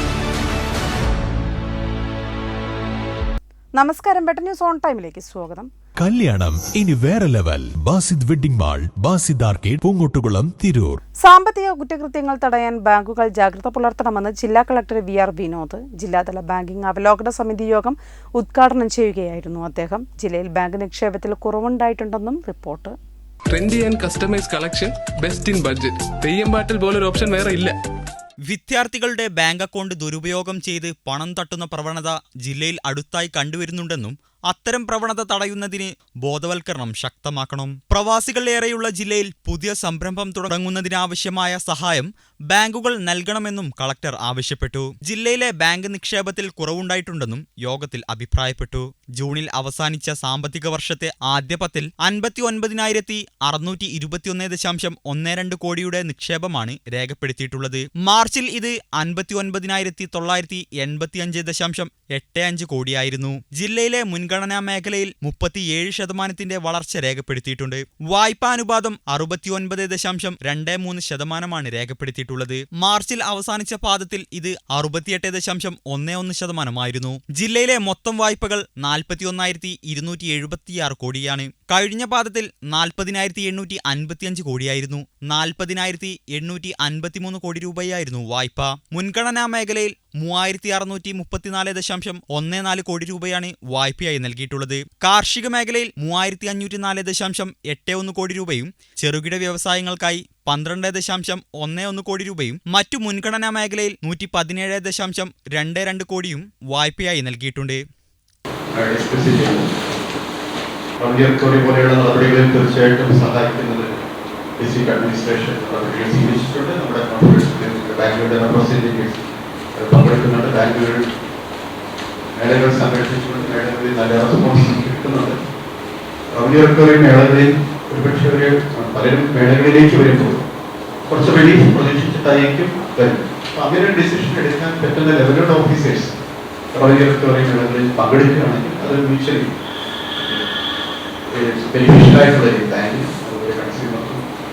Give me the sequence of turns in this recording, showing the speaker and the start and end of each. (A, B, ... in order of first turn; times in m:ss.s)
0:03.8-0:05.7 A
0:06.0-0:11.0 B
0:11.2-0:22.9 A
0:23.5-0:27.7 C
0:28.5-1:47.8 D
1:48.7-1:49.7 E
1:51.0-1:54.0 E
1:54.6-1:59.2 E
1:59.7-2:01.1 E
2:02.3-2:05.4 E
2:06.3-2:10.4 E
2:11.1-2:16.1 E
2:16.7-2:19.5 E
2:20.2-2:20.5 E
2:21.3-2:24.2 E